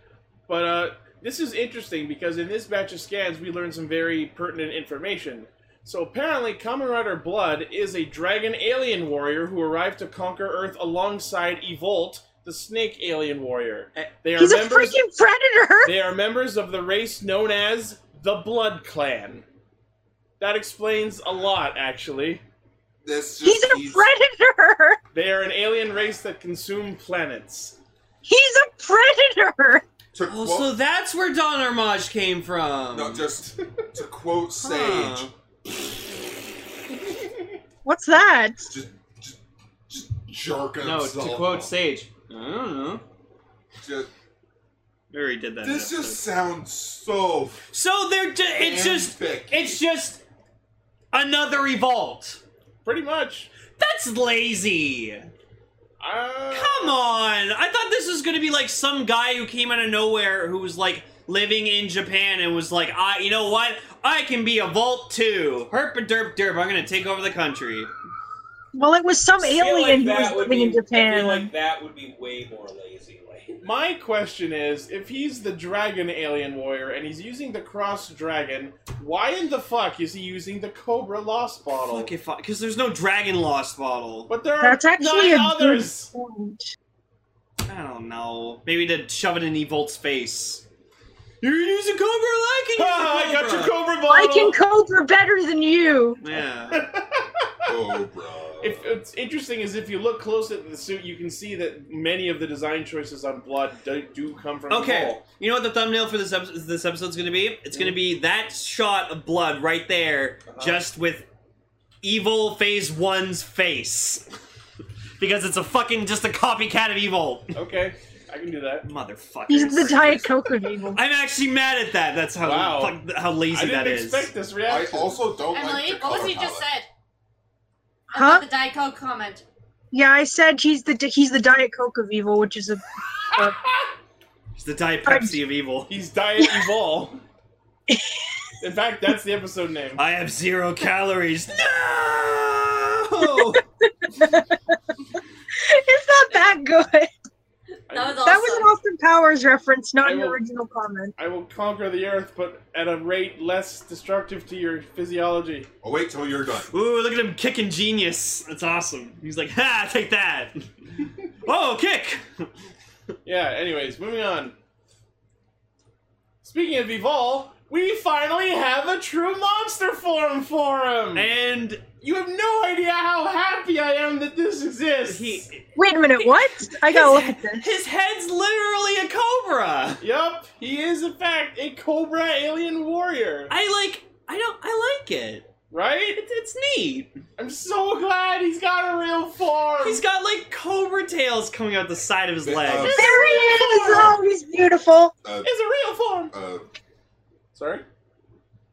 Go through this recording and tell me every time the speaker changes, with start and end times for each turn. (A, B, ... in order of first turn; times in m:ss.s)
0:00.5-0:15.0 A
0:14.4-0:16.0 B
0:15.8-0:19.4 A
0:20.4-0:22.4 A
0:23.0-0:24.1 C
0:23.4-0:25.0 B
0:25.1-0:27.8 A
0:28.2-0:29.8 B
0:30.1-0:30.7 C
0:30.3-0:33.3 D
0:32.9-0:35.3 C
0:34.6-0:35.3 D
0:37.8-0:38.7 B
0:38.7-0:41.7 C
0:40.8-0:43.0 D
0:43.8-0:44.1 C
0:45.1-0:46.2 D
0:45.6-0:47.7 C
0:47.7-0:50.2 D
0:48.6-0:49.8 C
0:51.1-0:52.4 D
0:52.8-0:53.5 A
0:53.7-0:55.3 D
0:56.0-0:57.0 A
0:56.5-1:07.9 D
1:08.7-1:11.5 B
1:09.4-1:13.6 E
1:13.6-1:22.1 A
1:21.9-1:24.3 D
1:24.3-1:26.1 A
1:24.6-1:26.7 B
1:27.7-1:30.6 D
1:31.4-1:33.8 D
1:32.8-1:34.6 A
1:34.1-1:36.2 B
1:36.2-1:36.9 D
1:36.7-1:37.7 A
1:37.7-1:38.9 C
1:38.6-1:45.2 A
1:44.7-1:51.3 D
1:47.7-1:48.0 A
1:50.5-1:50.9 A
1:52.0-1:54.2 D
1:55.2-1:57.5 D
1:57.5-1:58.9 A
1:58.8-2:00.3 D
1:59.5-2:01.0 B
2:00.9-2:04.3 D
2:02.4-2:03.0 A
2:03.5-2:05.2 A
2:04.7-2:06.7 C
2:05.5-2:06.9 F
2:08.1-2:09.4 F
2:08.2-2:08.4 B
2:09.9-2:13.6 B
2:13.6-2:13.9 A
2:14.6-2:16.0 D
2:15.1-2:15.4 B
2:15.9-2:17.2 A
2:16.4-2:16.7 B
2:18.6-2:20.0 A
2:20.0-2:23.6 D
2:24.0-2:24.6 B
2:25.6-2:27.1 B
2:27.9-2:28.4 A
2:27.9-2:28.7 F
2:28.2-2:31.2 B
2:30.0-2:30.4 A
2:31.2-2:35.7 A
2:35.8-2:36.7 C
2:36.7-2:40.7 D
2:41.4-2:42.5 D
2:43.2-2:44.6 A
2:46.4-2:51.3 A
2:51.1-2:51.8 D
2:52.0-2:55.5 A
2:55.0-3:00.0 D
2:55.8-2:57.6 B
3:00.0-3:03.5 A
3:03.5-3:05.5 D
3:05.7-3:06.2 A
3:06.2-3:07.2 D
3:07.4-3:10.0 A
3:09.8-3:13.1 D
3:12.4-3:14.2 C
3:12.9-3:14.2 A
3:12.9-3:15.2 B
3:15.2-3:15.5 C
3:15.4-3:16.3 A
3:16.3-3:16.7 C
3:17.5-3:17.8 A